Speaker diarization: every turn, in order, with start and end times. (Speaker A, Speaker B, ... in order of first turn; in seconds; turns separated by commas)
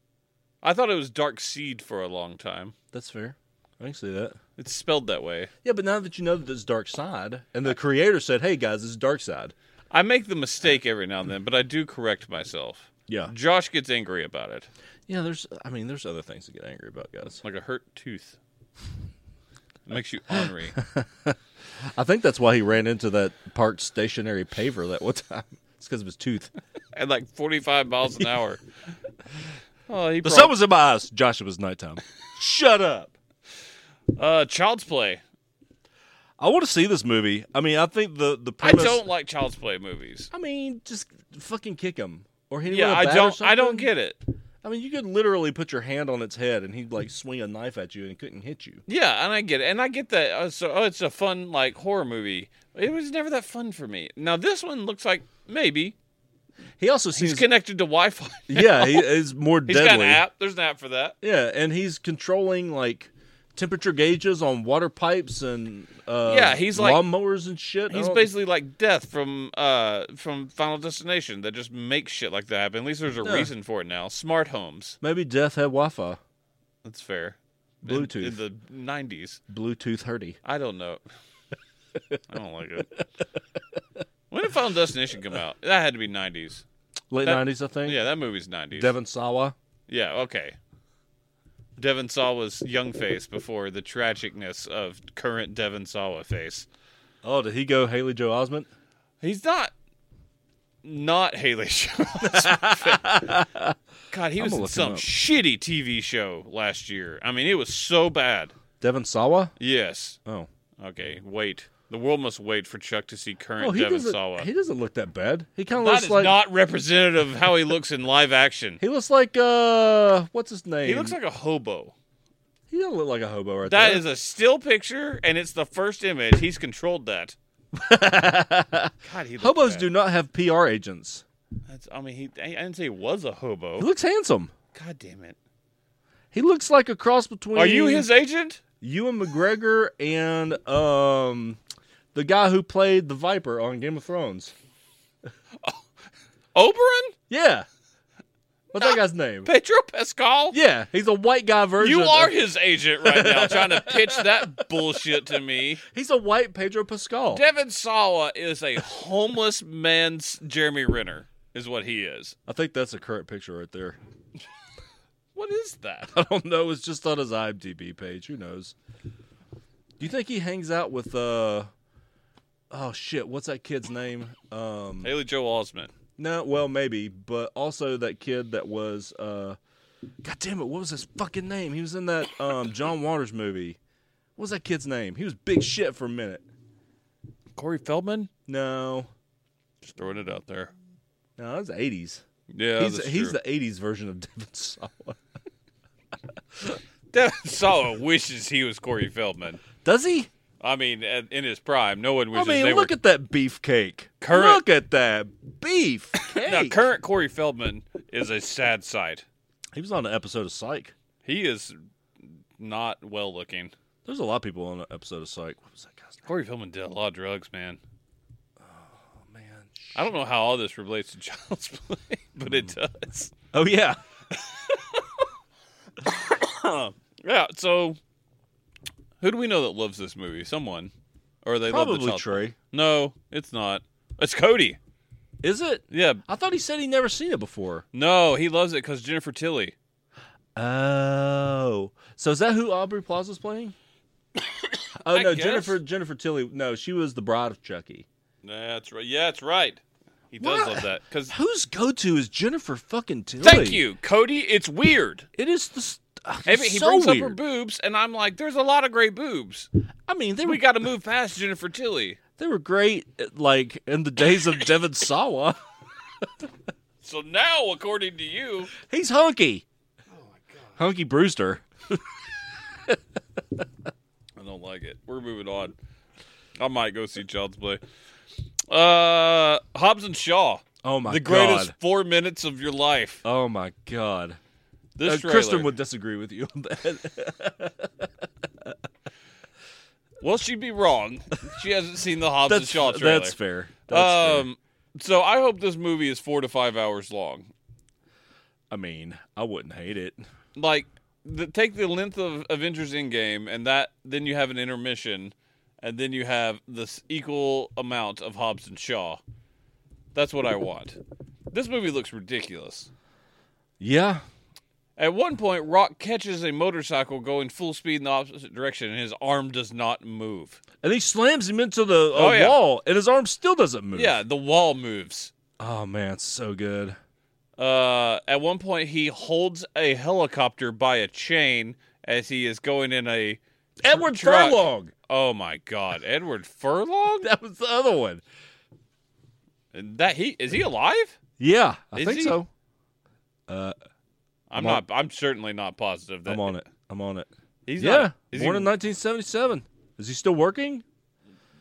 Speaker A: 0.6-2.7, Speaker B: 2.9-4.4, Speaker A: 4.6-5.5, Speaker B: 5.6-9.5, Speaker A: 9.9-14.7, Speaker B: 13.1-13.3, Speaker B: 15.1-17.4, Speaker A: 17.4-18.4, Speaker A: 19.9-20.8, Speaker B: 20.3-21.4, Speaker B: 21.9-26.5, Speaker A: 26.9-28.6, Speaker A: 29.9-30.5, Speaker B: 30.2-33.1, Speaker A: 34.2-35.2, Speaker B: 36.4-39.0, Speaker A: 38.6-40.3, Speaker B: 40.3-43.9, Speaker A: 42.7-44.2, Speaker B: 44.6-48.8, Speaker A: 48.9-56.0, Speaker B: 56.8-57.5, Speaker A: 57.2-59.1, Speaker B: 58.5-60.2, Speaker A: 59.7-61.2, Speaker B: 61.2-68.3, Speaker A: 66.2-67.0, Speaker A: 67.9-75.0, Speaker B: 73.2-73.5, Speaker B: 75.0-76.2, Speaker A: 76.8-79.4, Speaker B: 77.8-78.4, Speaker B: 79.5-80.4, Speaker A: 80.4-81.0, Speaker A: 82.3-83.0, Speaker A: 84.3-86.7, Speaker B: 87.1-88.0, Speaker A: 87.2-88.9, Speaker B: 88.8-89.5, Speaker A: 89.9-90.6, Speaker A: 91.8-96.7, Speaker B: 97.2-98.7, Speaker A: 99.2-99.7, Speaker A: 100.8-103.2, Speaker B: 102.2-103.8, Speaker A: 104.1-108.5, Speaker B: 104.4-105.1, Speaker B: 108.8-109.5, Speaker A: 109.6-110.2, Speaker A: 110.8-114.5, Speaker B: 113.6-116.4, Speaker A: 115.8-118.8, Speaker B: 118.8-121.2, Speaker A: 120.8-121.9, Speaker B: 122.7-124.0, Speaker A: 123.7-127.4, Speaker B: 127.7-131.2, Speaker A: 129.0-129.9, Speaker A: 131.7-133.9, Speaker B: 133.8-134.5, Speaker A: 134.7-135.4, Speaker B: 136.3-138.1, Speaker A: 137.6-138.6, Speaker B: 138.8-141.6, Speaker B: 142.1-144.5, Speaker A: 146.6-147.2, Speaker B: 147.3-147.7, Speaker B: 148.7-149.5, Speaker A: 149.4-150.6, Speaker B: 150.5-152.3, Speaker A: 151.8-155.8, Speaker B: 153.0-154.8, Speaker B: 155.8-157.4, Speaker A: 157.3-162.3, Speaker B: 162.5-164.0, Speaker A: 165.3-166.1, Speaker B: 166.1-168.8, Speaker B: 170.0-171.7, Speaker B: 172.7-175.1, Speaker A: 175.0-175.9, Speaker B: 176.2-179.6, Speaker B: 180.2-183.8, Speaker B: 184.4-186.4, Speaker A: 187.6-188.3, Speaker B: 188.5-189.1, Speaker A: 189.8-190.7, Speaker B: 191.4-192.2, Speaker A: 192.5-193.4, Speaker B: 192.8-195.2, Speaker A: 197.1-199.6, Speaker B: 199.8-200.3, Speaker A: 200.6-202.9, Speaker B: 202.3-206.8, Speaker A: 204.2-204.6, Speaker A: 206.2-209.2, Speaker B: 209.7-210.9, Speaker A: 211.2-211.8, Speaker A: 212.6-213.7, Speaker B: 214.1-216.2, Speaker A: 216.2-217.8, Speaker B: 218.6-220.0, Speaker A: 219.9-223.3, Speaker B: 223.5-224.0, Speaker A: 226.1-228.0, Speaker A: 229.2-230.9, Speaker A: 231.4-234.8, Speaker B: 231.7-232.6, Speaker B: 235.4-237.8, Speaker A: 235.9-236.2, Speaker A: 237.9-239.8, Speaker B: 240.6-243.8, Speaker A: 244.6-245.8, Speaker B: 245.0-248.1, Speaker A: 248.4-249.8, Speaker A: 250.3-251.3, Speaker B: 250.4-253.8, Speaker A: 253.4-255.3, Speaker B: 255.4-257.4, Speaker A: 256.5-259.7, Speaker B: 260.1-260.6, Speaker A: 260.4-262.2, Speaker B: 262.4-265.6, Speaker B: 266.2-266.5, Speaker A: 267.0-268.7, Speaker B: 268.8-269.6, Speaker A: 270.3-270.8, Speaker B: 270.8-273.0, Speaker A: 274.4-275.8, Speaker A: 276.6-277.8, Speaker A: 278.7-283.2, Speaker B: 280.8-281.7, Speaker B: 283.2-284.4, Speaker A: 285.0-285.7, Speaker B: 285.0-288.1, Speaker A: 290.2-293.4, Speaker B: 292.4-294.5, Speaker A: 293.9-297.5, Speaker B: 298.7-300.2, Speaker A: 300.6-309.2, Speaker A: 310.1-311.0, Speaker A: 311.5-312.9, Speaker B: 313.8-314.2, Speaker A: 315.0-320.6, Speaker B: 320.8-324.2, Speaker A: 322.1-322.6, Speaker A: 323.9-325.3, Speaker B: 325.6-327.0, Speaker A: 327.6-337.3, Speaker B: 333.8-334.9, Speaker B: 337.2-338.2, Speaker A: 339.7-341.2, Speaker B: 341.4-342.5, Speaker A: 341.9-342.4, Speaker B: 343.5-343.8, Speaker A: 344.5-346.6, Speaker B: 344.6-344.8, Speaker B: 346.2-350.8, Speaker A: 347.7-348.7